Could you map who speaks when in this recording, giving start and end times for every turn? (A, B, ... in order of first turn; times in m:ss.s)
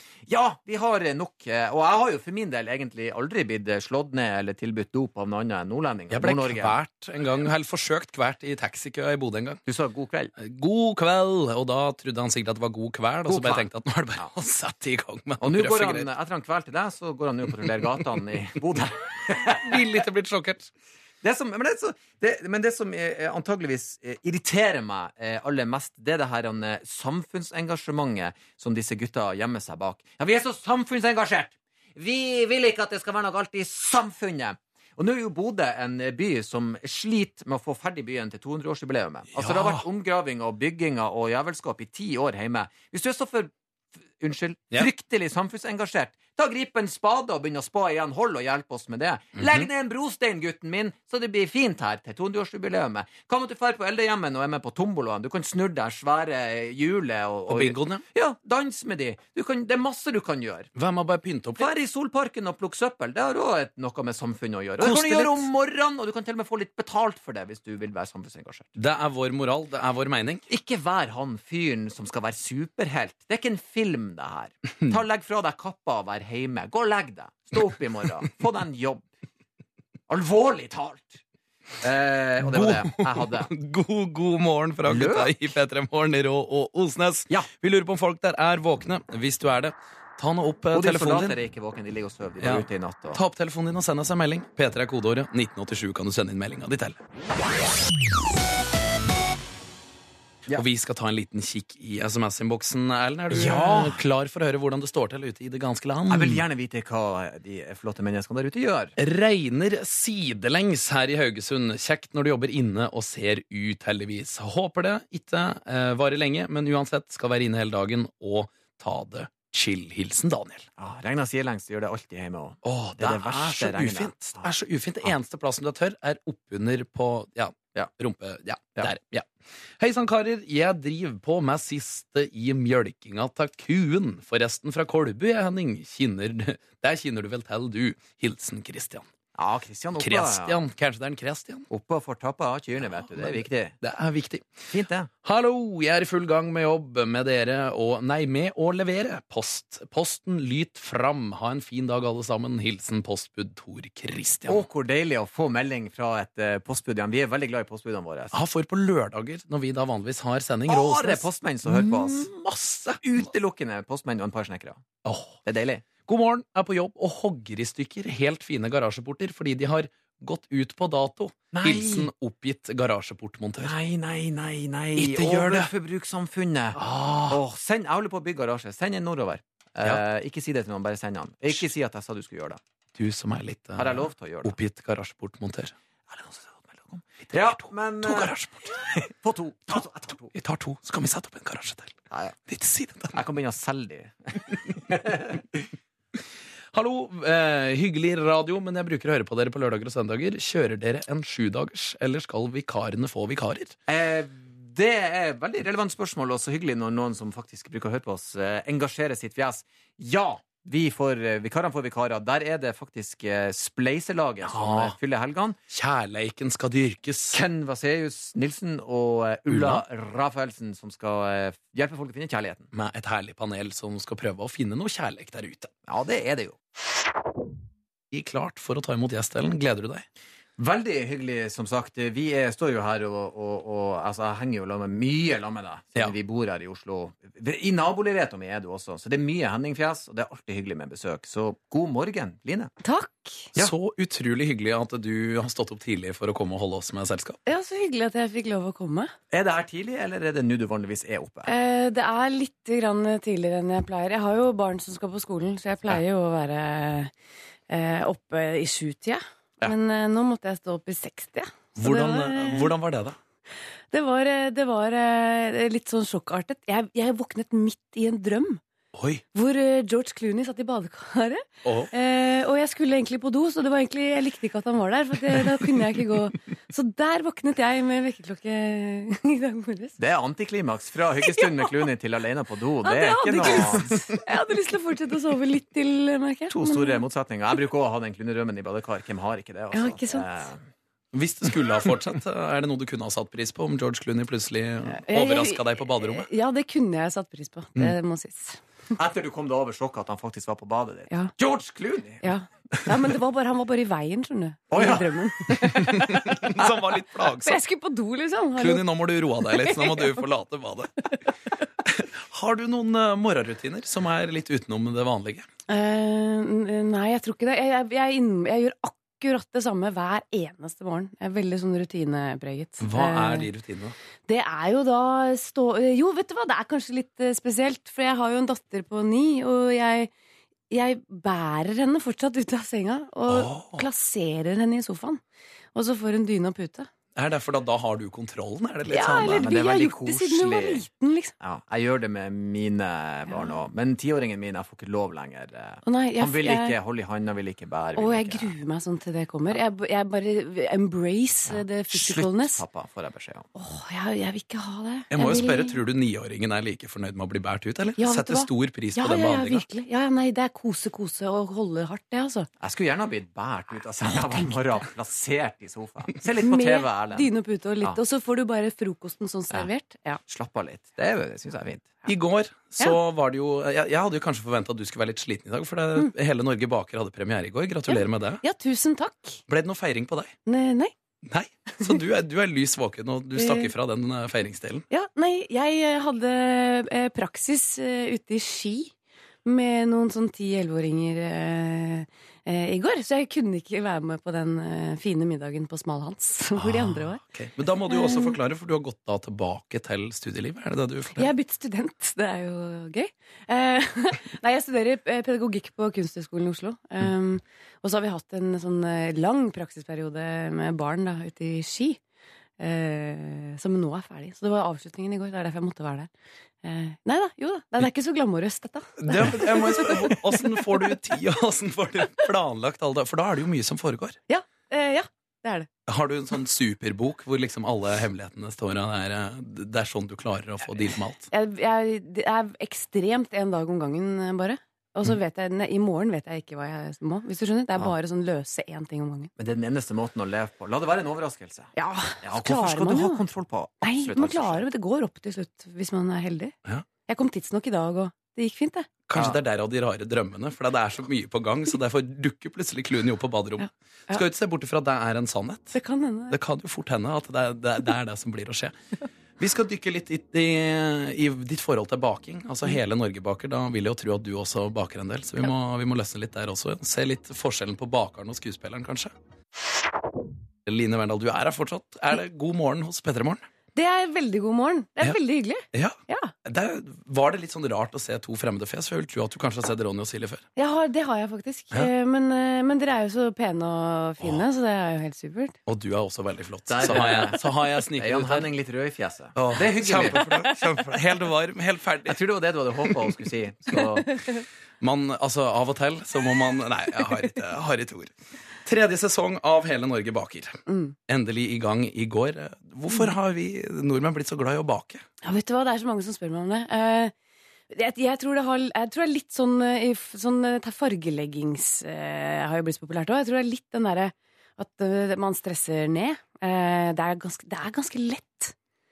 0:00.3-0:06.8 A
0:06.1-0:09.6 B
0:09.7-0:10.3 A
0:10.4-0:16.1 B
0:13.3-0:14.3 A
0:15.4-0:19.8 A
0:19.6-0:20.7 B
0:21.2-0:43.5 A
0:39.4-0:39.8 B
0:44.2-1:00.7 A
0:49.4-0:49.7 B
0:57.5-0:58.0 B
1:00.8-1:01.7 B
1:01.6-1:08.8 A
1:04.8-1:05.5 B
1:08.8-1:10.4 B
1:10.5-1:19.1 A
1:20.1-1:21.2 A
1:21.8-1:23.5 A
1:22.4-1:31.4 B
1:24.9-1:25.3 A
1:30.7-1:33.2 A
1:32.4-1:37.0 B
1:40.5-1:46.4 B
1:43.3-1:44.0 A
1:46.1-1:48.9 A
1:49.0-2:00.7 B
2:00.8-2:04.5 A
2:02.6-2:19.1 B
2:19.4-2:20.6 A
2:20.0-2:21.7 B
2:21.7-2:23.8 A
2:22.8-2:24.5 B
2:24.7-2:25.1 A
2:25.2-2:34.7 B
2:34.5-2:38.4 A
2:38.3-2:43.0 B
2:40.7-2:42.3 A
2:42.9-2:44.8 A
2:45.0-2:45.4 B
2:45.4-2:45.8 A
2:46.0-2:53.7 B
2:51.5-2:52.1 A
2:53.6-3:02.6 A
2:55.0-2:55.7 B
2:56.8-2:57.4 B
3:03.0-3:05.8 B
3:03.8-3:04.6 A
3:06.1-3:10.4 A
3:07.3-3:09.0 B
3:10.3-3:13.2 B
3:12.1-3:12.4 A
3:13.1-3:15.6 A
3:16.7-3:23.8 B
3:23.9-3:35.6 A
3:34.4-3:35.0 B
3:35.7-3:37.4 B
3:37.3-3:42.7 A
3:39.5-3:39.8 B
3:42.7-3:45.7 B
3:45.9-3:46.6 A
3:48.1-3:50.0 B
3:50.6-4:02.7 A
4:02.8-4:03.5 C
4:03.6-4:07.4 B
4:07.5-4:09.1 C
4:09.3-4:11.5 A
4:11.5-4:17.1 C
4:17.7-4:22.7 C
4:21.8-4:23.2 B
4:23.9-4:28.6 C
4:29.0-4:29.2 B
4:29.3-4:40.0 C
4:31.6-4:31.9 B
4:40.0-4:44.0 A
4:41.2-4:41.8 C
4:42.8-4:47.0 C
4:46.5-4:50.6 A
4:49.7-4:50.4 C
4:51.1-4:56.3 B
4:55.0-4:58.6 C
4:59.0-5:02.2 A
5:02.2-5:06.2 C
5:04.7-5:06.7 A
5:05.9-5:07.6 B
5:07.3-5:08.9 C
5:08.6-5:11.1 B
5:09.5-5:10.1 C
5:11.8-5:15.5 B
5:15.7-5:23.5 C
5:22.8-5:24.0 B
5:24.3-5:30.1 C
5:30.7-5:35.2 C
5:33.3-5:33.9 B
5:35.8-5:36.9 C
5:37.2-5:39.4 B
5:38.9-5:41.3 C
5:39.2-5:40.8 A
5:41.4-5:48.5 A
5:45.8-5:46.8 C
5:48.0-5:52.6 C
5:51.5-5:53.5 A
5:53.6-5:55.8 C
5:55.1-5:59.7 B
5:58.0-6:02.5 C
6:02.6-6:07.3 A
6:06.4-6:10.2 C
6:10.3-6:11.9 A
6:12.0-6:18.4 B
6:17.9-6:19.4 C
6:19.5-6:20.4 B
6:20.5-6:20.9 C
6:21.2-6:24.8 B
6:23.4-6:23.7 C
6:24.9-6:28.9 C
6:29.4-6:37.2 C
6:36.6-6:41.3 B
6:37.9-6:38.4 C
6:41.2-6:52.0 C
6:52.6-6:56.1 C
6:56.6-7:00.9 C
6:59.0-7:04.2 B
7:04.3-7:05.7 C
7:05.9-7:11.3 B
7:11.3-7:19.3 C
7:19.4-7:24.6 A
7:21.8-7:23.2 C
7:23.8-7:26.5 C
7:27.1-7:29.0 C
7:29.1-7:35.8 B
7:33.6-7:34.2 C
7:35.7-7:36.4 C
7:36.3-7:38.8 B
7:39.4-7:49.1 B
7:50.7-7:53.5 B
7:53.8-7:56.3 C
7:55.7-8:00.4 B
8:00.6-8:05.6 C
8:05.7-8:08.5 B
8:06.7-8:10.3 A
8:09.4-8:12.2 B
8:12.1-8:14.1 A
8:14.8-8:25.0 B
8:20.7-8:21.0 C
8:25.2-8:27.1 C
8:27.7-8:38.5 C